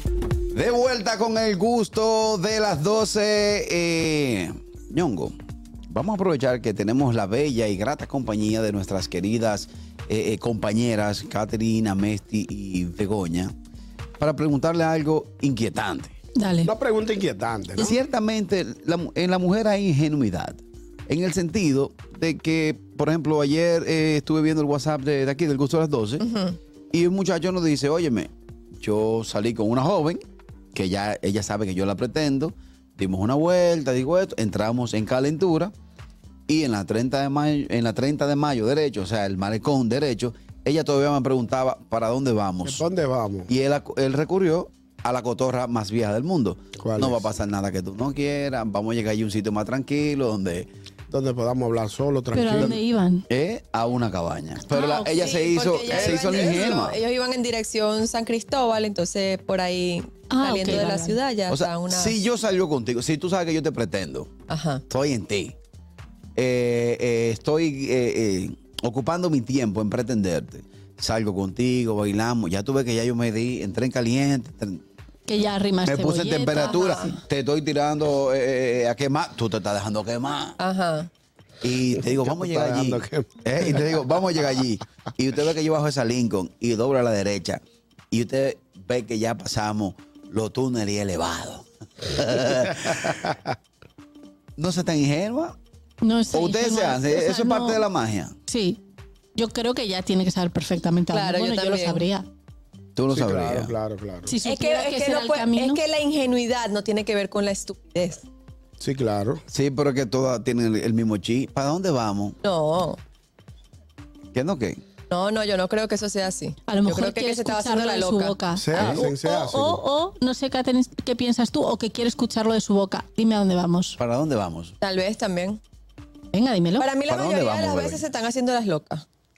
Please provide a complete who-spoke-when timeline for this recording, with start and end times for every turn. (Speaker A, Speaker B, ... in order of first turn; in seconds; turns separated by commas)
Speaker A: 0.5-5.3, Speaker A: 5.9-13.5, Speaker A: 14.2-16.2, Speaker B: 16.4-16.7, Speaker C: 16.6-18.0, Speaker A: 17.8-26.2, Speaker D: 26.2-26.6, Speaker A: 26.9-30.2, Speaker A: 30.8-35.7, Speaker A: 36.5-42.8, Speaker C: 42.6-43.5, Speaker A: 43.5-50.7, Speaker C: 46.8-47.2, Speaker C: 51.1-52.8, Speaker B: 52.3-53.2, Speaker A: 53.3-57.0, Speaker B: 54.7-55.2, Speaker D: 55.1-62.2, Speaker B: 60.3-61.1, Speaker A: 61.5-64.3, Speaker D: 64.5-64.8, Speaker A: 64.9-65.5, Speaker A: 66.4-74.8, Speaker B: 75.3-76.8, Speaker A: 75.9-80.6, Speaker D: 76.6-77.2, Speaker D: 80.6-81.1, Speaker A: 81.6-93.2, Speaker C: 82.0-83.3, Speaker A: 94.6-95.6, Speaker B: 96.0-97.8, Speaker A: 96.3-98.3, Speaker B: 98.5-98.8, Speaker B: 99.4-102.3, Speaker D: 101.1-102.1, Speaker A: 103.0-103.7, Speaker C: 103.1-104.4, Speaker B: 104.3-105.8, Speaker D: 104.4-108.3, Speaker C: 108.8-109.4, Speaker A: 109.5-112.4, Speaker D: 112.4-113.0, Speaker A: 114.3-114.8, Speaker D: 115.1-118.5, Speaker B: 116.7-118.7, Speaker C: 118.5-119.8, Speaker A: 118.8-119.1, Speaker B: 119.2-124.0, Speaker A: 124.0-124.8, Speaker D: 124.8-125.6, Speaker B: 126.3-126.9, Speaker D: 126.8-129.0, Speaker A: 127.1-128.0